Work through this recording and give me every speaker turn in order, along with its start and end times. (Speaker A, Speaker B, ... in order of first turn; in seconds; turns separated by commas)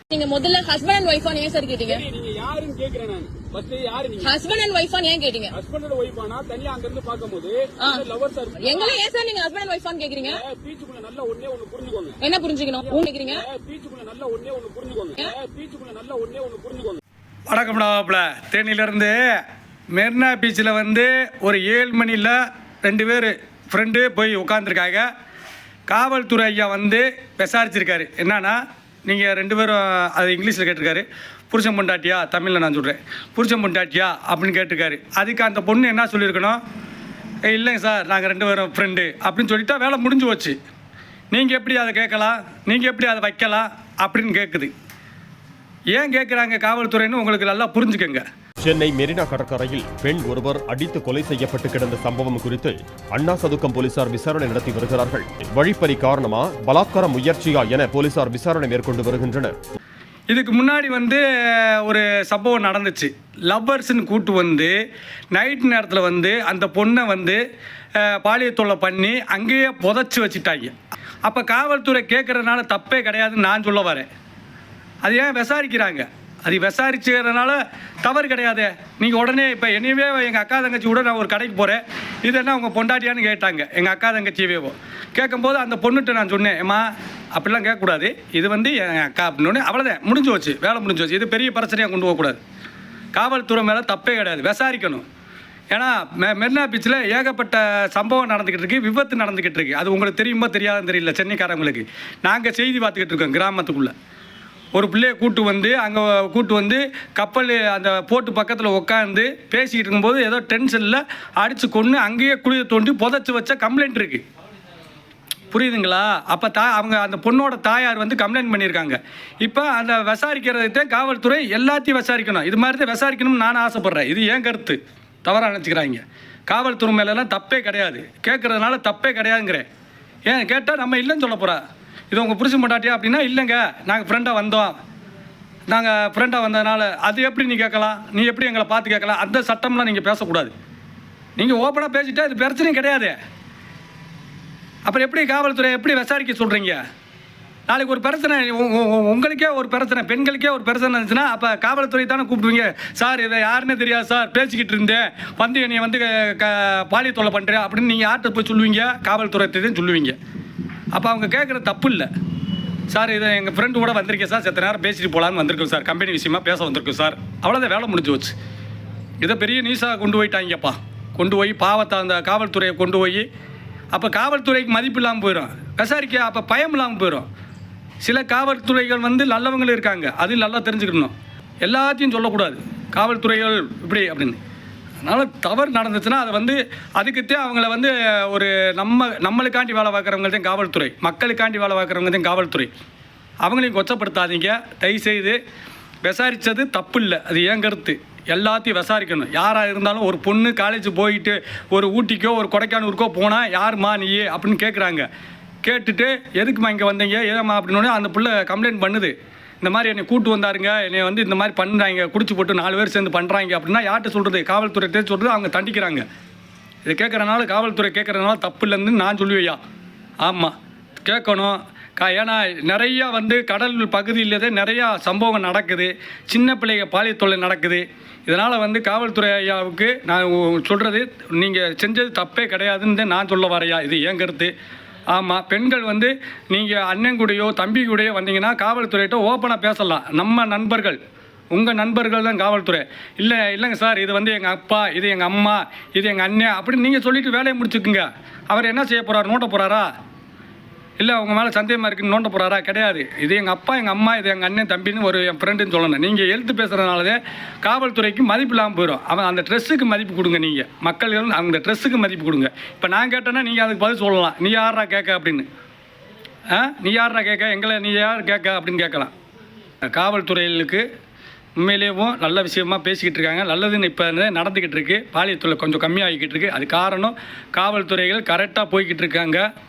Speaker A: 0.1-2.0, Speaker B: 1.9-4.3, Speaker A: 4.2-5.5, Speaker B: 5.5-9.0, Speaker A: 8.6-10.4, Speaker B: 10.3-12.2, Speaker A: 12.2-13.4, Speaker B: 12.8-17.0, Speaker C: 17.5-19.4, Speaker C: 19.9-25.1, Speaker C: 25.9-36.6, Speaker C: 37.5-40.6, Speaker C: 41.3-44.7, Speaker C: 45.9-48.2, Speaker D: 48.6-59.5, Speaker C: 60.3-64.7, Speaker C: 65.3-67.4, Speaker C: 68.0-74.1, Speaker C: 75.0-92.4, Speaker C: 93.1-95.0, Speaker C: 95.7-103.9, Speaker C: 104.7-114.2, Speaker C: 115.5-129.6, Speaker C: 130.3-134.7, Speaker C: 135.7-140.5, Speaker C: 141.4-143.1, Speaker C: 144.8-146.8, Speaker C: 147.7-160.2, Speaker C: 160.9-162.1, Speaker C: 162.9-168.3, Speaker C: 169.2-173.3, Speaker C: 173.9-177.3, Speaker C: 178.0-184.4, Speaker C: 185.0-192.7, Speaker C: 193.4-195.4, Speaker C: 196.0-205.1, Speaker C: 205.6-216.0, Speaker C: 216.8-219.6, Speaker C: 220.2-220.5, Speaker C: 221.1-234.5, Speaker C: 235.1-241.0, Speaker C: 241.5-249.9, Speaker C: 251.0-265.4, Speaker C: 266.5-269.1, Speaker C: 269.8-270.8, Speaker C: 271.6-279.4